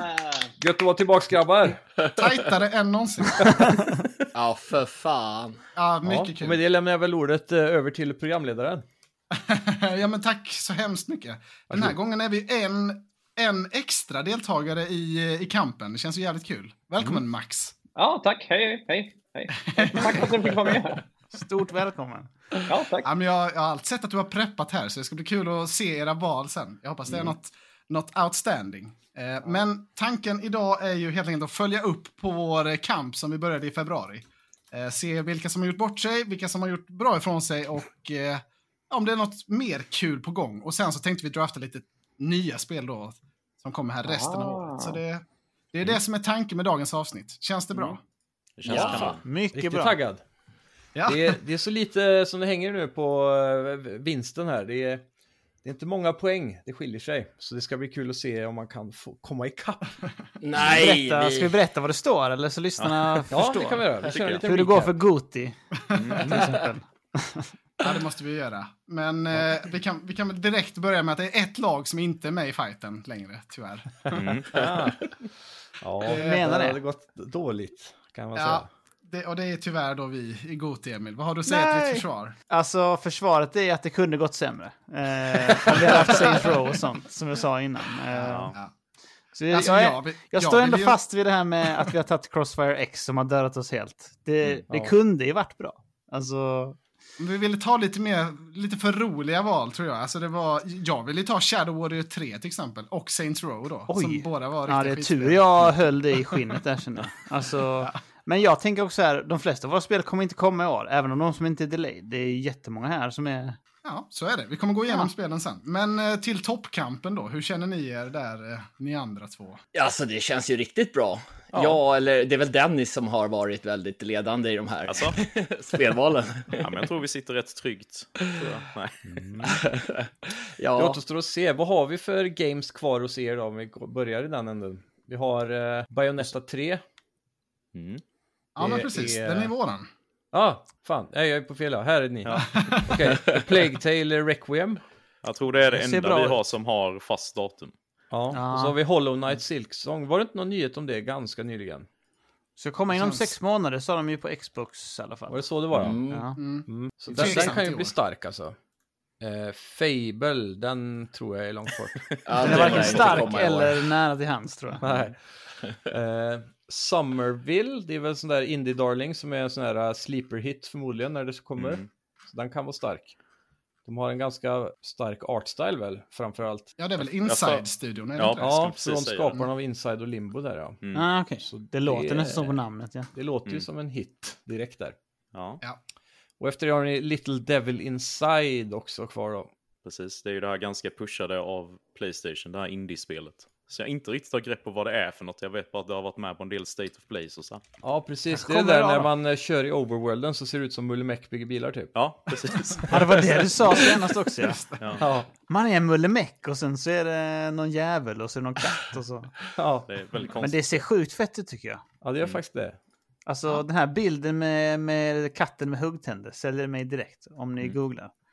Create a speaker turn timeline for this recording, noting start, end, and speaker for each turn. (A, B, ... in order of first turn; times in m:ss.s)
0:00.6-0:01.8 A
0:02.0-0:03.8 B
0:04.3-0:05.6 C
0:05.7-0:06.6 B
0:06.0-0:08.8 A
0:09.3-0:17.7 B
0:11.7-0:11.9 A
0:17.9-0:21.0 D
0:19.6-0:20.7 B
0:21.3-0:22.3 E
0:22.6-0:23.1 D
0:23.0-0:48.0 B
0:44.0-0:45.0 D
0:48.6-0:49.2 F
0:48.6-0:49.2 C
0:48.7-0:50.2 A
0:48.8-0:50.0 E
0:51.0-0:51.4 B
0:51.0-0:55.0 A
0:55.6-0:59.9 A
1:00.4-1:01.5 C
1:00.6-1:07.5 E
1:03.3-1:05.0 A
1:04.0-1:04.4 F
1:05.9-1:06.5 F
1:06.0-1:06.2 B
1:07.8-1:14.3 B
1:14.0-1:15.1 A
1:14.1-1:14.6 F
1:15.8-1:18.7 A
1:16.0-1:16.5 B
1:16.1-1:16.8 E
1:18.4-1:22.4 B
1:21.4-1:28.5 E
1:25.8-1:26.5 B
1:28.1-1:28.7 B
1:28.2-1:28.5 F
1:29.3-1:36.8 E
1:29.5-1:31.0 B
1:37.2-1:46.4 B
1:43.9-1:53.6 E
1:53.8-1:59.6 B
1:59.7-2:06.8 C
2:01.5-2:01.8 F
2:04.9-2:05.2 F
2:06.5-2:09.6 F
2:09.4-2:11.0 C
2:10.8-2:16.8 A
2:17.7-2:18.0 F
2:18.6-2:19.9 B
2:18.6-2:19.5 A
2:20.3-2:24.8 A
2:22.2-2:22.6 F
2:22.5-2:23.1 B
2:25.2-2:27.7 F
2:25.6-2:26.4 E
2:28.1-2:31.9 A
2:28.3-2:28.8 E
2:32.6-2:35.4 E
2:32.9-2:33.3 B
2:35.3-2:36.0 A
2:35.8-2:36.4 C
2:36.1-2:36.4 E
2:36.4-2:37.9 B
2:36.7-2:38.6 A
2:37.1-2:37.4 E
2:39.2-2:43.2 A
2:42.1-2:43.2 F
2:42.2-2:43.9 C
2:42.4-2:44.8 E
2:44.8-2:45.2 A
2:45.8-2:53.1 A
2:51.6-2:51.8 F
2:53.8-2:56.8 A
2:56.8-2:58.6 B
2:57.2-2:59.4 F
2:58.4-3:00.8 A
3:00.8-3:01.1 F
3:00.9-3:03.1 E
3:01.4-3:02.6 A
3:03.1-3:05.0 A
3:05.3-3:05.6 F
3:06.4-3:09.5 A
3:09.8-3:17.6 F
3:17.8-3:21.9 A
3:18.3-3:19.1 B
3:21.9-3:23.9 F
3:22.9-3:24.6 E
3:23.8-3:25.1 B
3:24.8-3:25.0 F
3:25.0-3:25.3 A
3:25.5-3:29.3 E
3:29.6-3:29.9 A
3:29.9-3:30.8 F
3:30.4-3:31.8 E
3:32.0-3:32.8 A
3:33.2-3:38.1 E